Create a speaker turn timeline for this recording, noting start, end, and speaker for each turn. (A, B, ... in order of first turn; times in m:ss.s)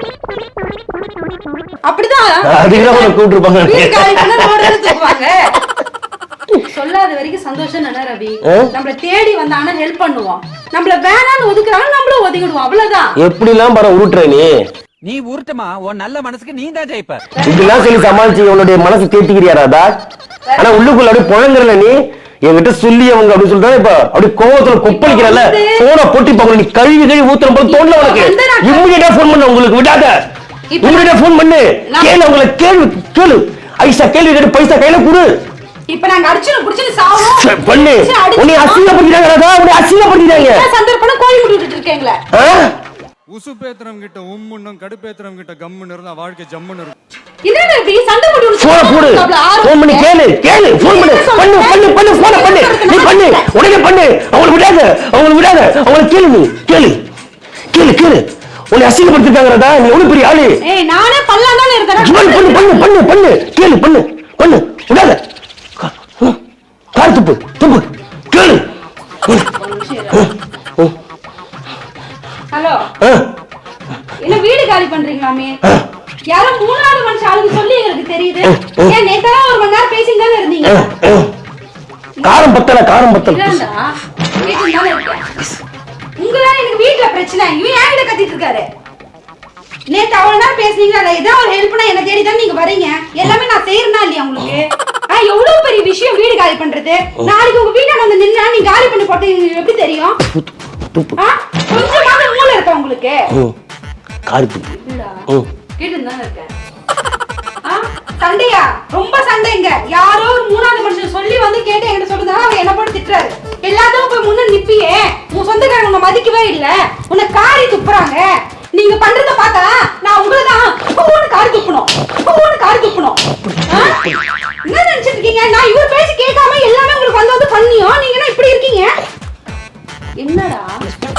0:01.9-0:05.4 A
0:02.4-0:04.9 B
0:06.6-0:13.1 A
0:08.5-0:08.7 B
0:13.2-0:14.5 B
0:15.0-0:17.2 C
0:17.3-0:18.2 A
0:17.4-0:20.0 B
0:20.5-0:20.9 A
0:20.6-0:30.1 B
0:24.9-0:25.8 A
0:27.6-0:28.9 A
0:30.7-0:31.2 A
0:30.8-0:35.3 B
0:35.9-0:38.9 A
0:37.2-0:40.7 B
0:40.3-0:42.2 A
0:42.3-0:42.7 B
0:43.3-0:47.0 D
0:47.4-0:50.1 A
0:48.6-0:57.0 B
0:50.7-0:53.7 A
0:57.7-1:00.6 B
1:00.6-1:02.9 A
1:02.0-1:05.2 B
1:05.8-1:06.4 B
1:06.9-1:08.6 B
1:09.5-1:10.3 A
1:10.1-1:10.9 B
1:12.5-1:12.9 A
1:13.0-1:13.3 B
1:14.2-1:15.6 A
1:16.3-1:20.9 A
1:18.4-1:18.9 B
1:20.7-1:21.3 B
1:22.2-1:22.6 A
1:22.2-1:23.6 B
1:23.1-1:23.9 A
1:24.4-1:25.2 A
1:26.2-1:28.7 A
1:29.9-1:40.2 A
1:40.2-1:41.2 B
1:41.2-1:43.3 A
1:44.3-1:44.7 B
1:44.7-1:45.2 A
1:45.8-1:46.5 A
1:47.6-2:04.0 A
2:03.7-2:04.2 B
2:04.6-2:08.9 A
2:10.2-2:10.8 A